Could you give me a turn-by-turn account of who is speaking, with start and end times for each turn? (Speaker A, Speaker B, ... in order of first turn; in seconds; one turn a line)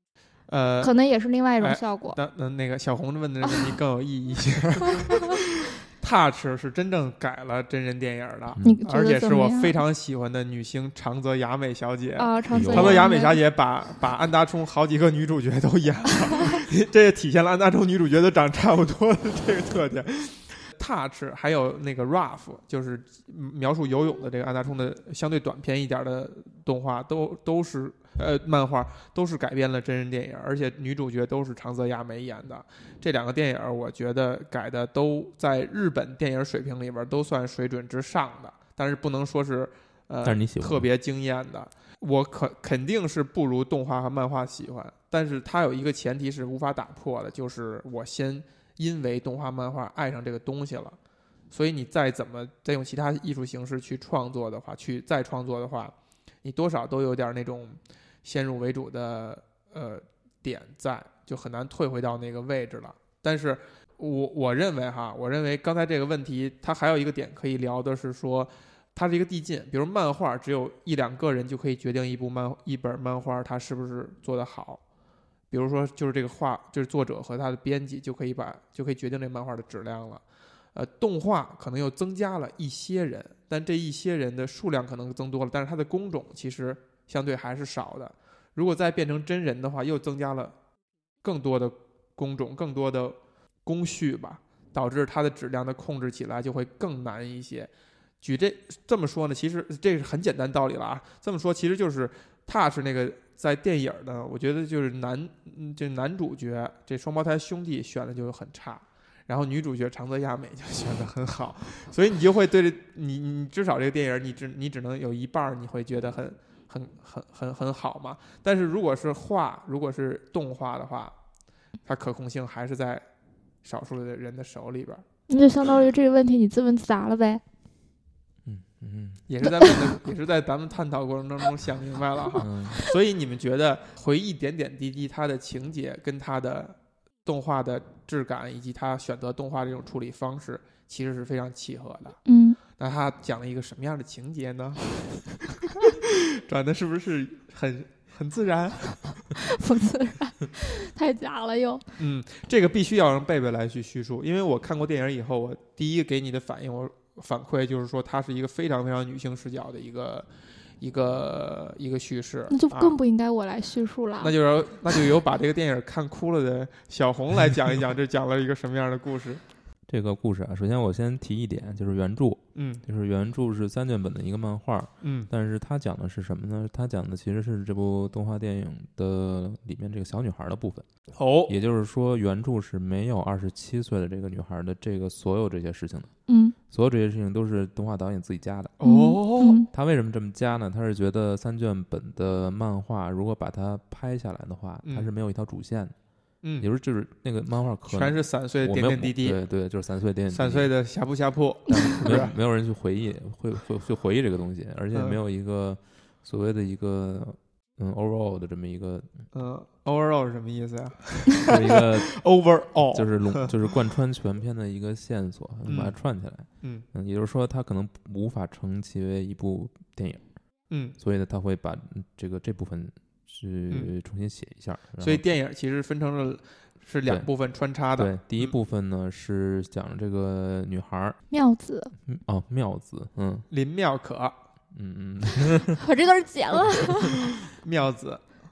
Speaker A: 0.5-0.9
Speaker B: 0.8-2.2
Speaker A: 1.6-51.0
Speaker B: 8.6-9.8
Speaker B: 12.2-13.4
Speaker C: 12.5-13.1
Speaker C: 40.2-40.9
Speaker A: 51.5-74.8
Speaker A: 75.5-80.2
Speaker A: 80.7-90.5
Speaker A: 91.2-97.7
Speaker A: 98.2-121.1
Speaker A: 121.8-123.0
Speaker A: 123.6-125.0
Speaker B: 125.3-127.4
Speaker C: 128.4-129.2
Speaker A: 129.3-142.2
Speaker B: 129.4-129.9
Speaker C: 132.4-132.8
Speaker B: 142.2-142.6
Speaker A: 142.8-149.2
Speaker B: 149.3-151.9
Speaker A: 152.0-160.3
Speaker A: 160.8-163.0
Speaker B: 162.5-164.3
Speaker A: 164.2-169.4
Speaker C: 169.9-180.9
Speaker A: 172.6-172.8
Speaker A: 175.0-175.3
Speaker A: 181.2-181.5
Speaker C: 181.5-186.1
Speaker B: 186.3-186.6
Speaker C: 186.7-188.8
Speaker A: 188.8-189.6
Speaker B: 188.8-189.7
Speaker C: 189.7-195.9
Speaker A: 194.8-195.1
Speaker A: 196.4-196.7
Speaker C: 196.6-200.7
Speaker A: 197.9-199.4
Speaker A: 200.3-202.3
Speaker C: 201.7-209.2
Speaker A: 204.9-205.2
Speaker A: 209.3-213.6
Speaker C: 211.5-212.2
Speaker C: 212.9-220.2
Speaker A: 215.7-216.0
Speaker A: 220.7-221.0
Speaker C: 221.0-225.2
Speaker A: 225.0-228.5
Speaker C: 228.0-231.2
Speaker B: 231.3-231.9
Speaker C: 232.0-233.5
Speaker A: 233.5-234.3
Speaker C: 234.7-235.8
Speaker B: 235.8-237.1
Speaker A: 237.3-238.2